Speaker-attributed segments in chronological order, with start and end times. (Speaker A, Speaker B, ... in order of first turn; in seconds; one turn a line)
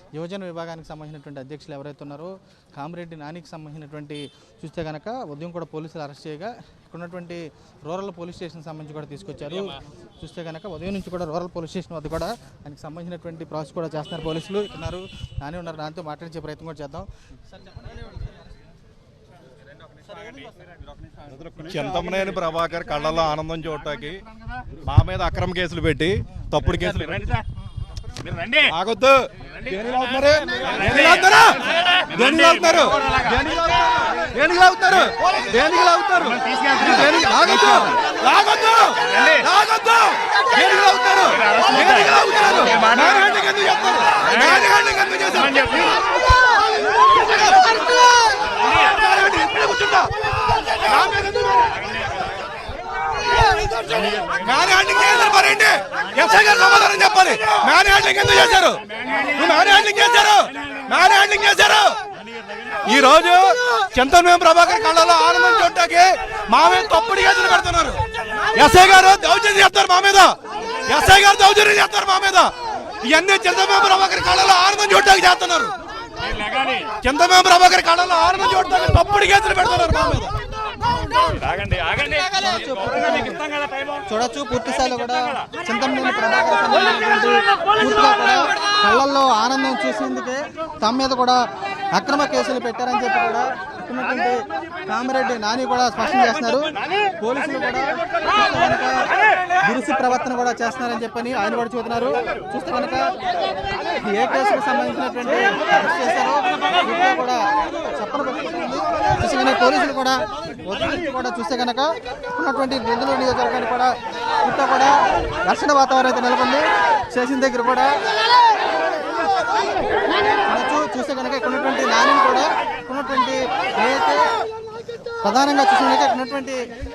Speaker A: 0.1-17.1
Speaker B: 21.4-24.2
Speaker B: 24.7-27.4
Speaker C: 28.3-28.7
Speaker B: 28.7-45.9
Speaker C: 30.8-31.2
Speaker C: 32.1-33.4
Speaker C: 36.3-37.9
Speaker C: 39.1-39.4
Speaker C: 41.4-43.2
Speaker C: 44.3-44.6
Speaker C: 45.4-46.0
Speaker B: 48.5-51.8
Speaker C: 53.9-54.3
Speaker B: 54.1-62.0
Speaker B: 62.8-68.0
Speaker B: 68.5-70.3
Speaker B: 70.8-75.7
Speaker C: 76.2-76.9
Speaker B: 76.9-80.3
Speaker C: 81.3-82.3
Speaker A: 82.3-83.4
Speaker C: 83.4-84.0
Speaker A: 84.1-91.4
Speaker A: 91.9-99.0
Speaker A: 99.6-103.1
Speaker A: 103.9-107.4
Speaker A: 107.9-113.9
Speaker A: 114.4-117.9
Speaker A: 120.4-124.2
Speaker A: 125.2-126.6